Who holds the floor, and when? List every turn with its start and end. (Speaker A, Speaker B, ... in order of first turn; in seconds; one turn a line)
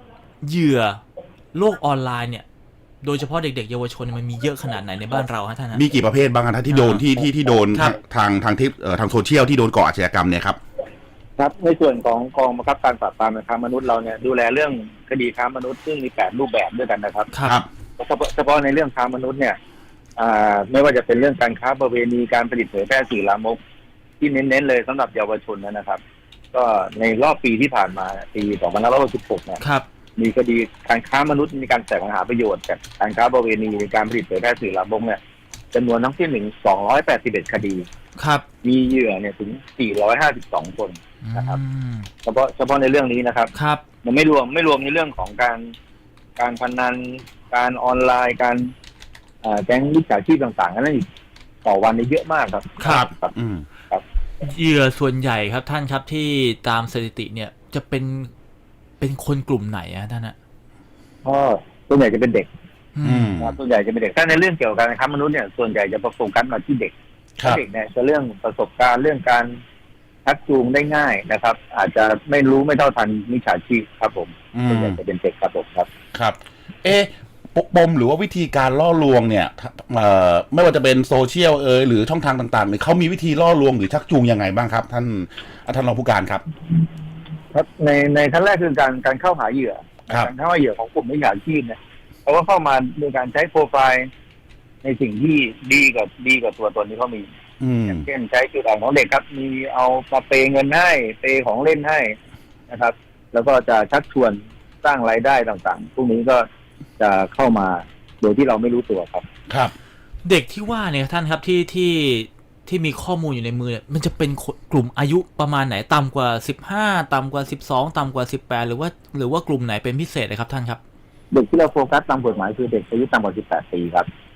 Speaker A: 0.4-1.0
Speaker A: 1.5-2.5
Speaker A: 3.0-5.8
Speaker B: 5.7-10.6
Speaker A: 6.7-7.1
Speaker C: 11.4-17.3
Speaker A: 17.3-17.6
Speaker C: 18.0-19.6
Speaker C: 20.2-23.6
Speaker C: 24.2-26.0
Speaker C: 26.5-29.6
Speaker A: 29.6-29.9
Speaker C: 30.2-35.2
Speaker C: 35.7-37.9
Speaker A: 38.2-38.5
Speaker C: 38.6-41.6
Speaker A: 41.2-42.1
Speaker C: 42.2-43.5
Speaker A: 43.5-43.8
Speaker C: 44.0-45.7
Speaker C: 46.4-48.7
Speaker C: 49.4-51.0
Speaker C: 51.6-53.3
Speaker B: 52.8-53.7
Speaker A: 54.4-58.3
Speaker A: 59.0-60.4
Speaker C: 61.2-62.5
Speaker A: 63.0-63.4
Speaker B: 63.0-63.6
Speaker C: 63.4-66.9
Speaker C: 67.4-69.5
Speaker C: 70.3-75.9
Speaker B: 74.5-75.0
Speaker B: 76.1-86.4
Speaker C: 87.5-94.1
Speaker C: 94.8-97.3
Speaker B: 97.6-98.0
Speaker C: 97.9-102.2
Speaker C: 102.7-106.5
Speaker C: 107.0-109.2
Speaker A: 110.2-120.8
Speaker C: 121.3-124.1